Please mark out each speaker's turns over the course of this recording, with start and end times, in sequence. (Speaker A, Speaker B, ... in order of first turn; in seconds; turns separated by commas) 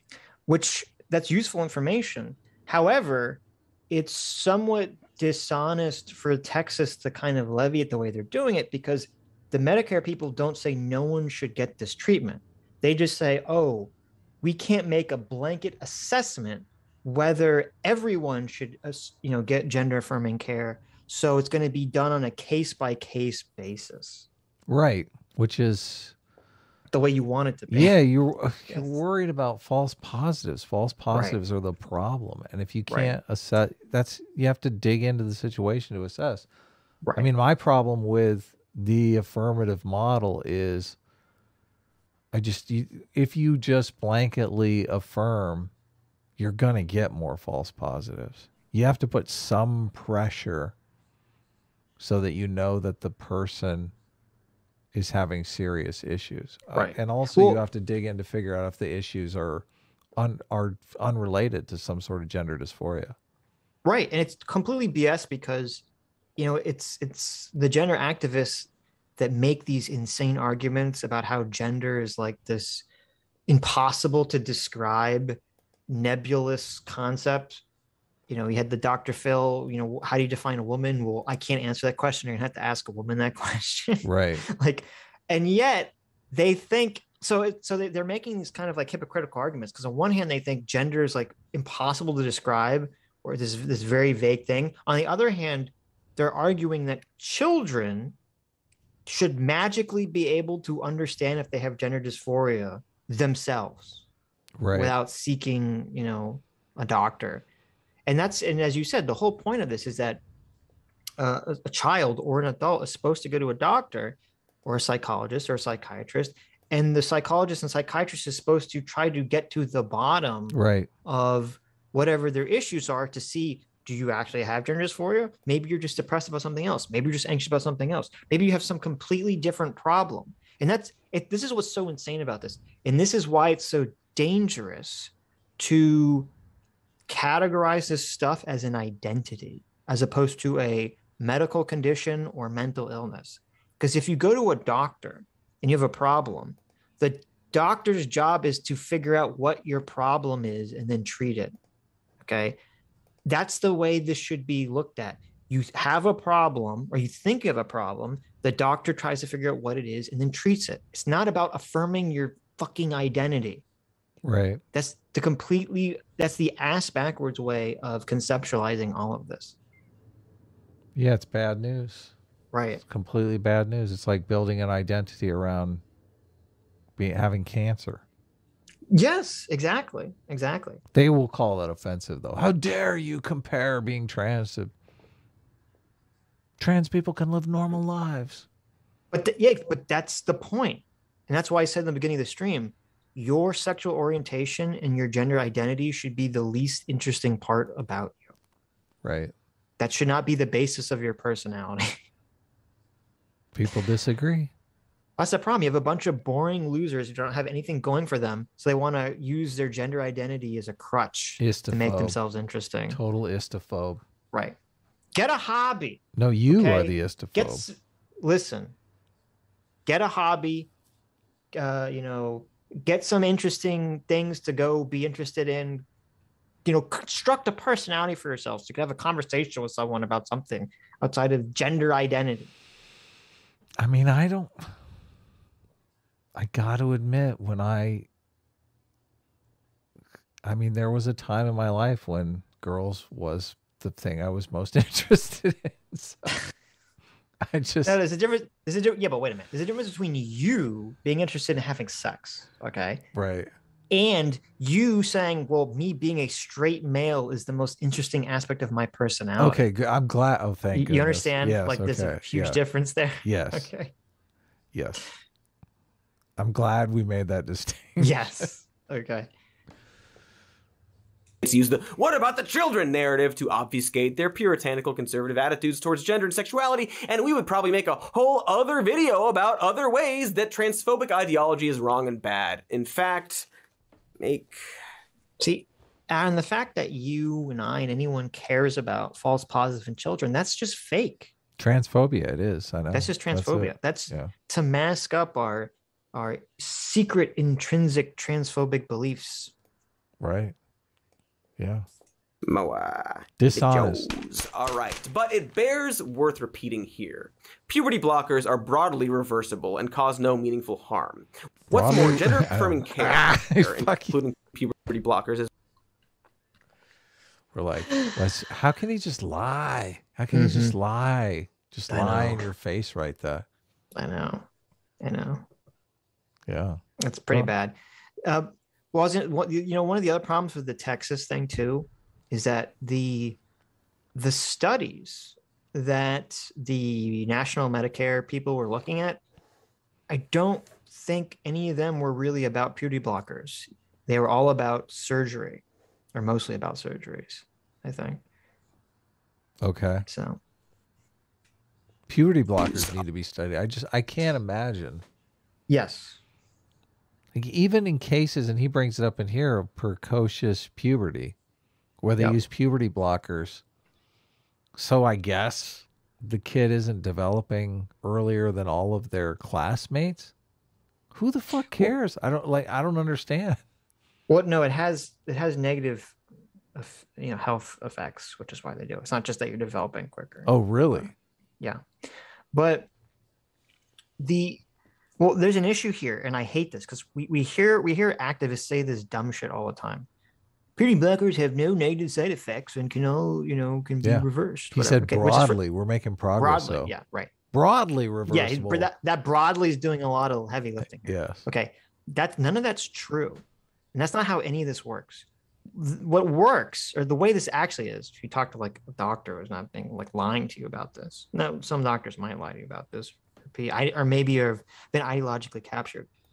Speaker A: 0.5-24.3, Speaker B: 24.7-26.1, Speaker A: 26.9-27.9, Speaker B: 27.7-36.5, Speaker A: 28.7-28.9, Speaker A: 31.1-31.4, Speaker A: 32.9-33.1, Speaker A: 37.0-37.3, Speaker B: 37.1-41.0, Speaker B: 42.3-45.7, Speaker B: 46.4-50.7, Speaker B: 52.0-53.9, Speaker B: 54.9-59.6, Speaker A: 56.7-57.6, Speaker B: 60.2-63.1, Speaker A: 63.8-65.8, Speaker A: 66.4-72.8, Speaker A: 73.5-77.6, Speaker A: 78.3-98.2, Speaker B: 84.0-84.4, Speaker A: 99.0-104.0, Speaker B: 104.6-104.9, Speaker A: 104.7-107.5, Speaker A: 108.0-110.2, Speaker A: 111.2-136.3, Speaker B: 120.5-120.9, Speaker A: 137.1-151.5, Speaker A: 152.2-152.6, Speaker A: 153.2-163.6, Speaker B: 164.2-164.6, Speaker A: 164.7-169.6, Speaker B: 170.9-172.1, Speaker A: 172.5-172.8, Speaker B: 172.8-175.8, Speaker B: 177.0-178.0, Speaker A: 178.9-180.8, Speaker B: 180.9-184.7, Speaker B: 186.6-188.5, Speaker A: 189.1-198.3, Speaker B: 199.0-199.3, Speaker A: 199.8-202.0, Speaker B: 203.5-204.5, Speaker A: 205.2-213.0, Speaker B: 211.4-212.2, Speaker B: 212.9-214.0, Speaker A: 214.3-214.6, Speaker A: 215.1-218.8, Speaker B: 216.1-217.6, Speaker A: 219.8-220.7, Speaker A: 221.5-225.8, Speaker A: 226.6-232.5, Speaker B: 233.8-234.7, Speaker B: 236.3-238.1, Speaker B: 240.4-246.4, Speaker B: 247.4-248.0, Speaker A: 247.8-253.0, Speaker B: 253.1-253.5, Speaker A: 253.9-259.6, Speaker B: 259.4-262.6, Speaker A: 260.7-263.9, Speaker B: 263.2-263.7, Speaker B: 264.7-265.0, Speaker B: 266.4-268.5, Speaker A: 268.0-269.3, Speaker C: 271.4-283.5, Speaker C: 284.2-284.6, Speaker A: 285.4-291.3, Speaker B: 291.6-294.3, Speaker A: 292.9-299.5, Speaker B: 300.2-300.5, Speaker B: 301.6-301.9, Speaker C: 302.5-315.5, Speaker B: 303.4-304.1, Speaker B: 311.7-314.1, Speaker B: 317.5-323.4, Speaker A: 320.3-320.8, Speaker A: 321.9-322.5, Speaker A: 323.9-324.4, Speaker A: 325.0-325.4, Speaker B: 326.5-326.8, Speaker A: 327.0-333.4, Speaker A: 334.1-339.2, Speaker A: 340.1-345.6, Speaker A: 346.1-348.2, Speaker B: 349.6-350.0, Speaker A: 350.1-350.4, Speaker B: 352.1-355.0, Speaker A: 355.7-356.2, Speaker B: 357.3-361.4, Speaker B: 362.0-363.6, Speaker B: 364.8-370.3, Speaker B: 371.1-373.6, Speaker A: 374.3-376.2, Speaker A: 376.7-381.8, Speaker B: 380.4-381.1, Speaker A: 382.5-382.9, Speaker A: 384.2-384.6, Speaker A: 385.2-390.1, Speaker A: 390.8-395.6, Speaker B: 394.0-396.9, Speaker A: 396.4-397.3, Speaker B: 397.5-398.9, Speaker A: 398.3-403.4, Speaker B: 401.0-401.4, Speaker A: 403.9-416.1